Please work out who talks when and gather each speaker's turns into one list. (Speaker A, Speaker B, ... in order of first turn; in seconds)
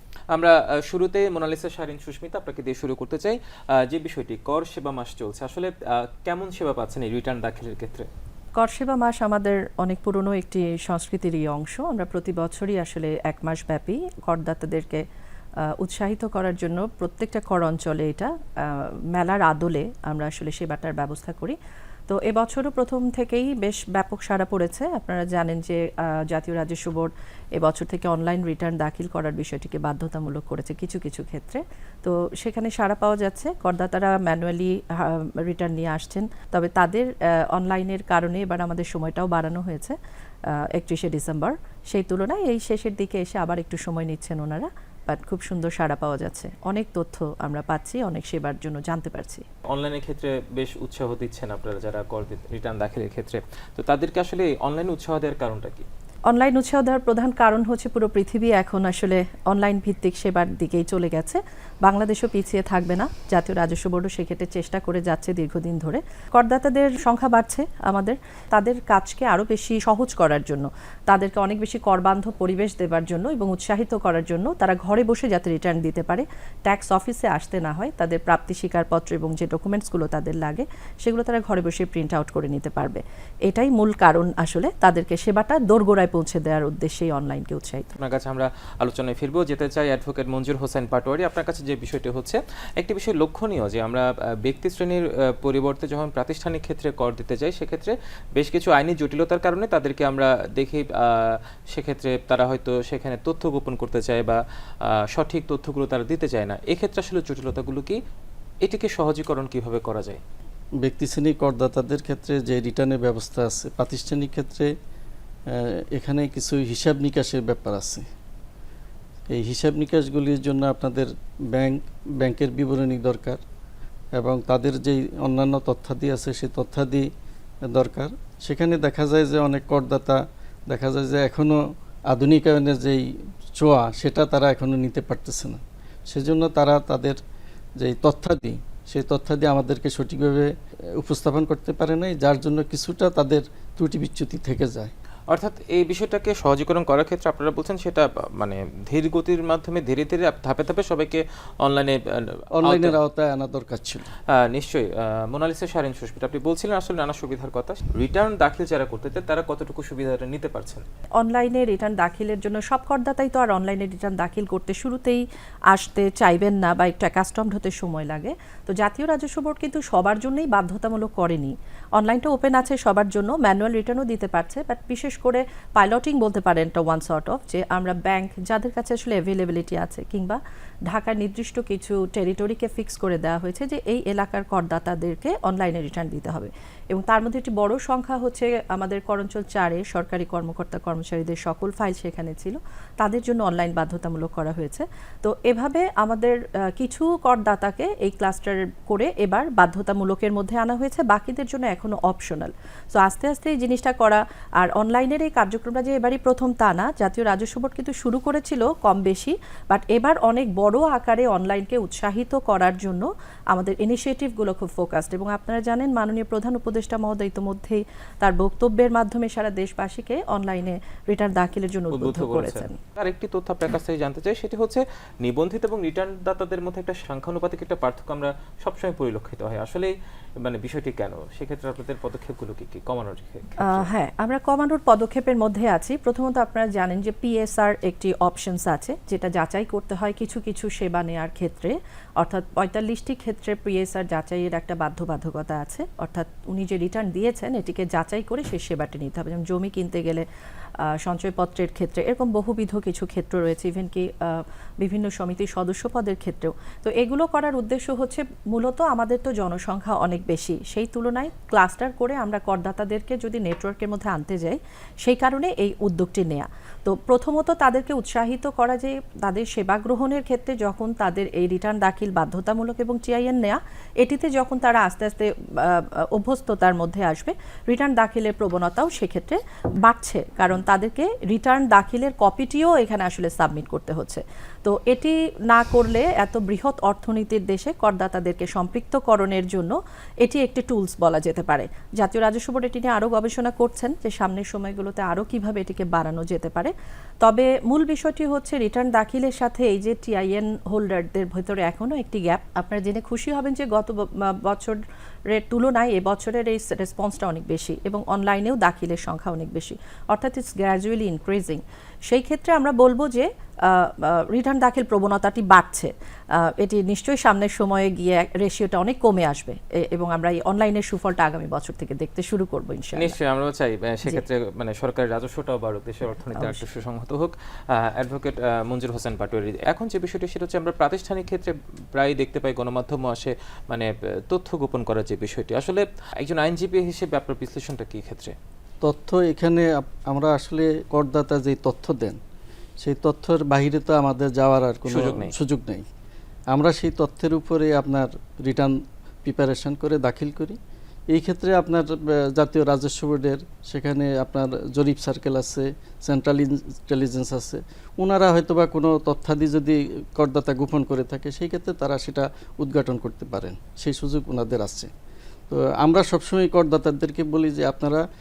Speaker A: 0.3-8.1, 49.7-55.9, 88.0-108.0, 108.6-110.2, 145.3-153.0, 154.3-160.8, 221.9-233.9, 322.9-338.3, 344.9-345.3
Speaker B: 8.6-15.0, 15.6-21.6, 22.1-40.0, 40.5-49.4, 56.3-87.9, 161.2-222.8, 233.6-250.2, 250.9-323.1, 326.4-326.6
Speaker C: 110.8-114.7, 115.5-118.0, 119.3-123.4, 124.2-127.1, 127.7-137.2, 137.8-144.9, 152.5-154.1, 338.8-342.2, 342.8-345.9, 346.5-350.6, 351.1-364.9, 365.5-368.0